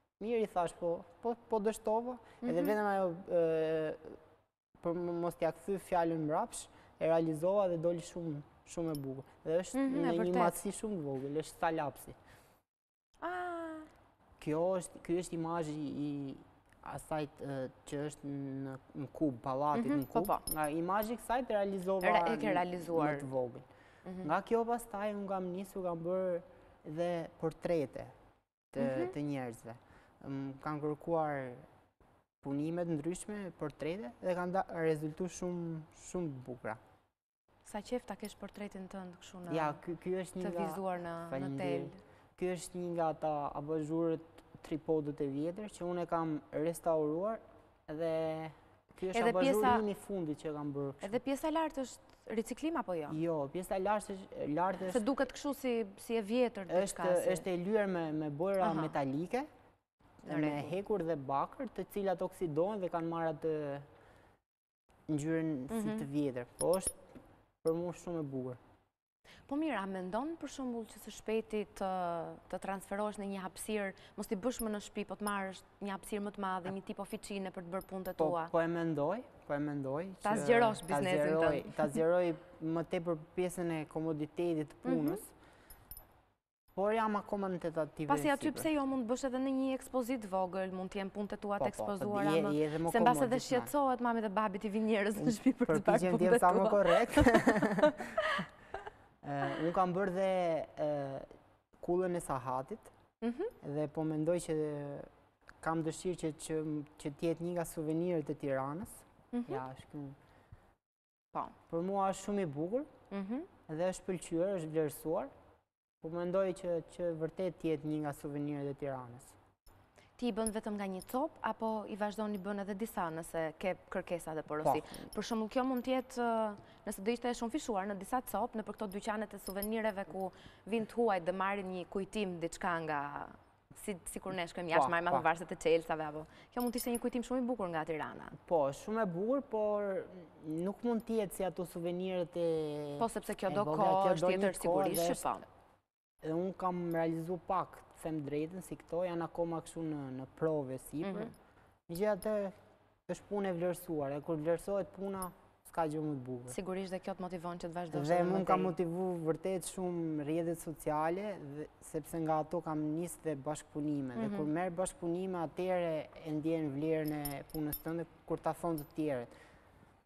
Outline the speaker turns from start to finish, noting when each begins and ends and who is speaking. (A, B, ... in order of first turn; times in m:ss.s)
0:00.2-0:04.2 A
0:02.4-0:02.7 B
0:04.8-0:12.2 A
0:09.7-0:10.6 B
0:13.2-0:13.9 B
0:14.4-0:23.6 A
0:19.7-0:20.4 B
0:22.0-0:23.3 B
0:24.0-0:24.3 B
0:24.2-0:28.1 A
0:28.7-0:31.6 A
0:28.8-0:29.1 B
0:32.4-0:36.8 A
0:37.6-0:39.8 B
0:39.5-0:51.2 A
0:40.4-0:42.0 B
0:49.1-0:49.8 B
0:51.0-0:53.2 B
0:53.1-0:55.0 A
0:54.9-0:57.4 B
0:56.7-0:59.5 A
0:58.6-0:58.9 B
1:00.2-1:00.7 B
1:00.3-1:03.8 A
1:05.1-1:06.9 A
1:05.7-1:06.1 B
1:07.6-1:08.6 A
1:09.5-1:18.5 B
1:18.2-1:25.3 A
1:20.2-1:21.9 B
1:24.8-1:25.2 B
1:26.7-1:28.7 A
1:28.1-1:38.5 B
1:31.6-1:33.7 A
1:35.2-1:38.0 A
1:39.2-1:41.3 A
1:41.8-1:42.9 A
1:43.2-1:43.5 B
1:43.6-1:45.1 A
1:45.6-1:50.2 A
1:49.3-1:49.6 B
1:51.7-1:52.9 A
1:53.1-1:53.5 B
1:53.7-1:55.3 A
1:56.0-1:59.3 A
2:00.2-2:18.3 B
2:04.6-2:05.1 A
2:14.7-2:15.2 A
2:18.4-2:25.3 A
2:23.0-2:25.4 B
2:26.2-2:31.3 A
2:31.0-2:31.3 B
2:31.9-2:32.5 A
2:33.1-2:36.6 A
2:36.5-2:38.8 B
2:37.9-2:49.3 A
2:44.2-2:44.5 B